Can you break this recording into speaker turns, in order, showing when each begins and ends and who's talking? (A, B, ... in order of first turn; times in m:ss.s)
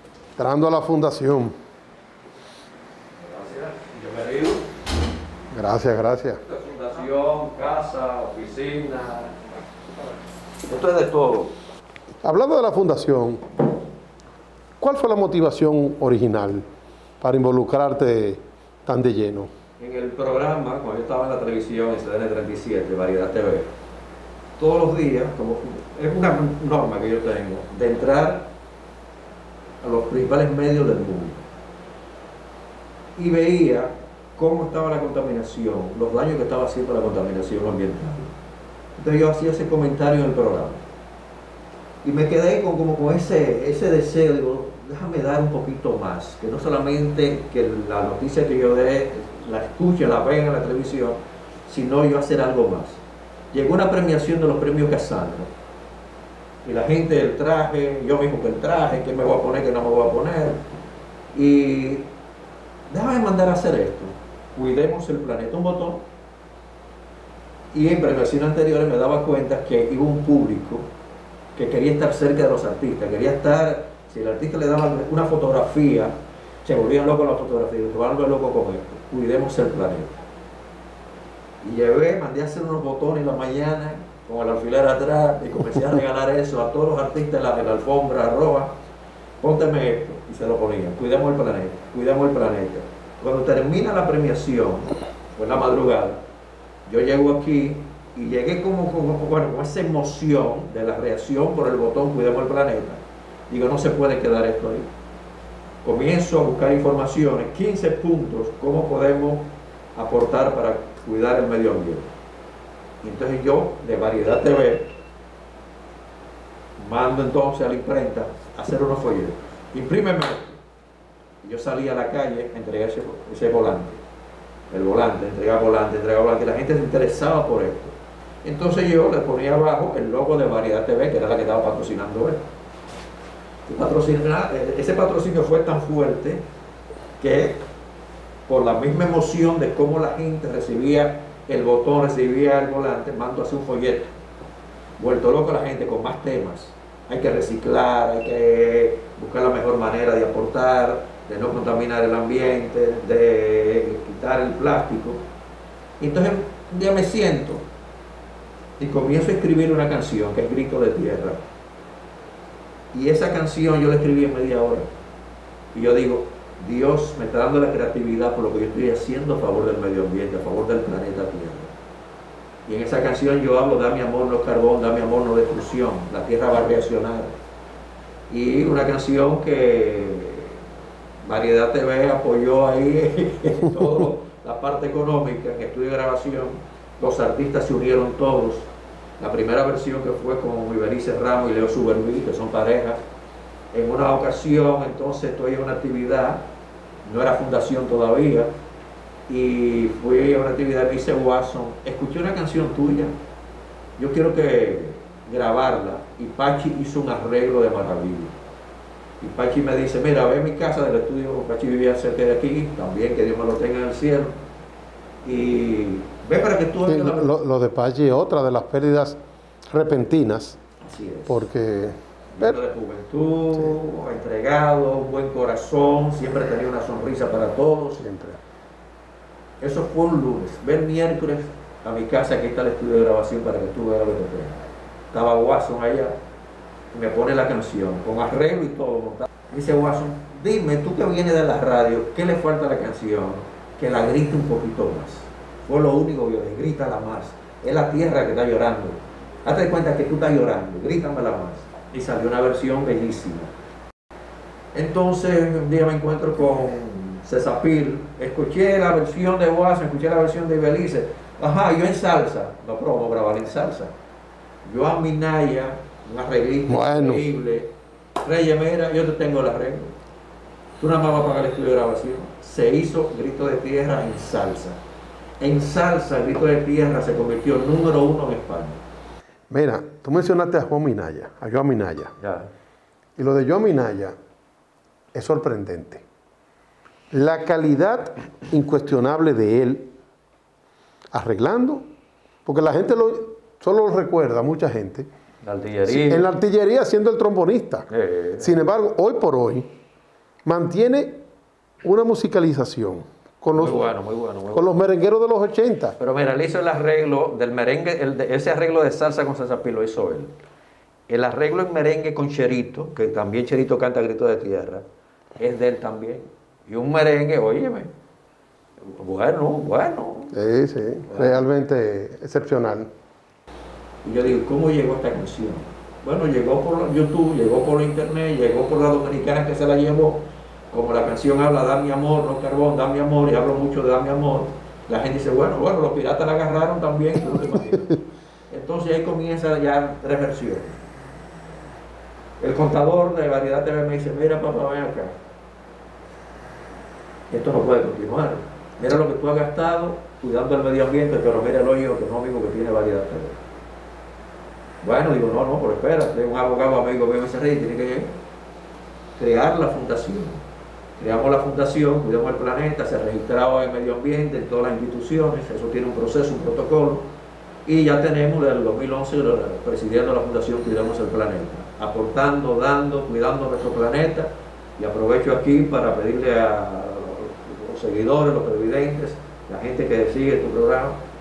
0:00.4-0:01.5 A
0:03.2-0:04.6 B
0:05.5-0:06.4 A
0:06.4-0:09.3 B
0:10.6-0:11.5 B
0:12.2-0:13.4 A
0:14.8-0:16.6 A
0:17.2-0:19.5 A
0:19.8-0:23.7 B
0:24.6-0:28.5 B
0:29.8-0:31.4 B
0:33.2-0:38.3 B
0:39.0-0:40.8 B
0:42.0-0:53.0 B
0:53.5-0:55.5 B
0:56.6-1:00.6 B
1:01.3-1:02.1 B
1:02.9-1:06.1 B
1:07.7-1:10.8 B
1:11.5-1:20.2 B
1:21.6-1:28.7 B
1:29.4-1:36.2 B
1:36.8-1:44.9 B
1:45.8-1:52.1 B
1:53.0-1:54.9 B
1:56.8-2:00.6 B
2:01.4-2:04.0 B
2:04.7-2:12.4 B
2:13.7-2:16.4 B
2:17.2-2:17.6 B
2:18.5-2:24.1 B
2:25.0-2:35.2 B
2:36.0-2:37.6 B
2:38.8-2:41.4 B
2:42.9-2:44.9 B
2:45.7-2:51.7 B
2:52.7-2:57.3 B
2:58.3-3:00.6 B
3:01.2-3:08.7 B
3:09.2-3:13.0 B
3:13.7-3:16.4 B
3:17.0-3:18.5 B
3:19.3-3:23.1 B
3:24.0-3:28.3 B
3:29.2-3:34.4 B
3:35.2-3:37.3 B
3:36.8-3:40.6 A
3:40.8-3:41.4 B
3:41.3-3:42.6 A
3:42.3-3:48.0 B
3:48.0-3:48.4 A
3:49.6-3:56.1 B
3:56.9-4:13.5 B
4:14.7-4:23.9 B
4:24.6-4:29.9 B
4:26.7-4:27.3 A
4:30.8-4:34.8 B
4:35.4-4:38.8 B
4:39.5-4:42.1 A
4:42.2-4:42.5 B
4:43.2-4:44.1 A
4:45.1-4:46.0 A
4:47.1-4:49.9 A
4:51.1-4:51.8 A
4:52.4-4:55.1 A
4:55.4-4:56.3 B
4:55.8-4:57.9 A
4:57.9-4:58.6 B
4:58.4-4:59.6 A
5:00.4-5:01.2 A
5:01.8-5:03.9 A
5:03.5-5:04.8 B
5:04.5-5:06.0 A
5:06.0-5:10.3 B
5:11.1-5:14.8 B
5:15.4-5:17.9 B
5:18.8-5:20.3 B
5:20.3-5:22.9 A
5:21.1-5:21.4 B
5:24.0-5:38.0 B
5:38.5-5:40.8 B
5:42.4-5:45.1 B
5:47.3-5:53.4 B
5:54.8-5:58.2 B
5:59.2-6:00.4 B
6:01.0-6:07.0 B
6:07.6-6:21.0 B